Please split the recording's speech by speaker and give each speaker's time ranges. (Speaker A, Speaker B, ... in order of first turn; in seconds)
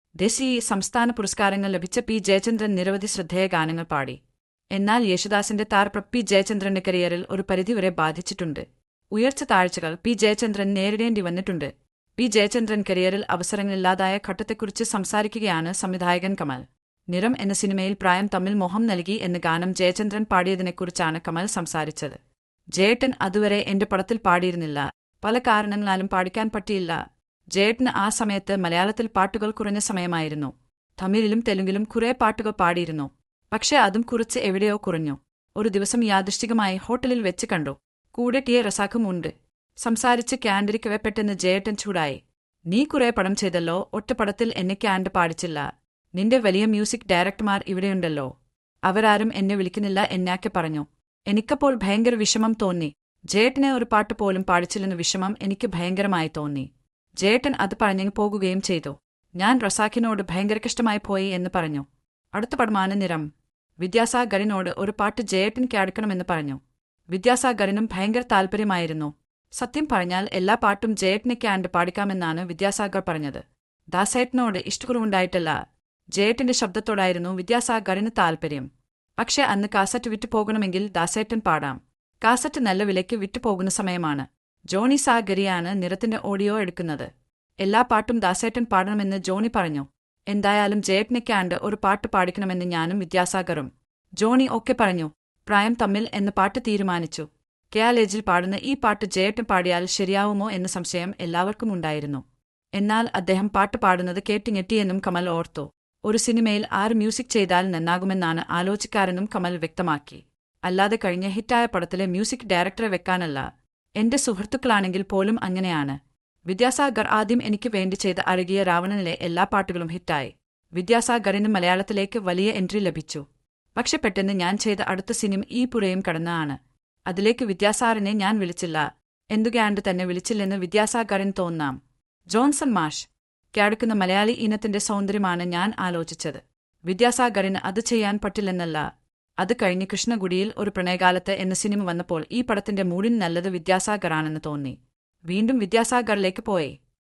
Speaker A: 0.2-4.2, 4.7-22.2, 22.8-27.0, 27.5-42.2, 42.7-45.6, 46.1-48.3, 48.9-56.7, 57.2-63.3, 63.8-66.6, 67.1-75.5, 76.2-78.7, 79.2-87.1, 87.6-102.2, 102.8-113.5, 114.0-123.2, 123.8-131.8, 132.3-138.8, 139.4-144.8, 145.3-146.8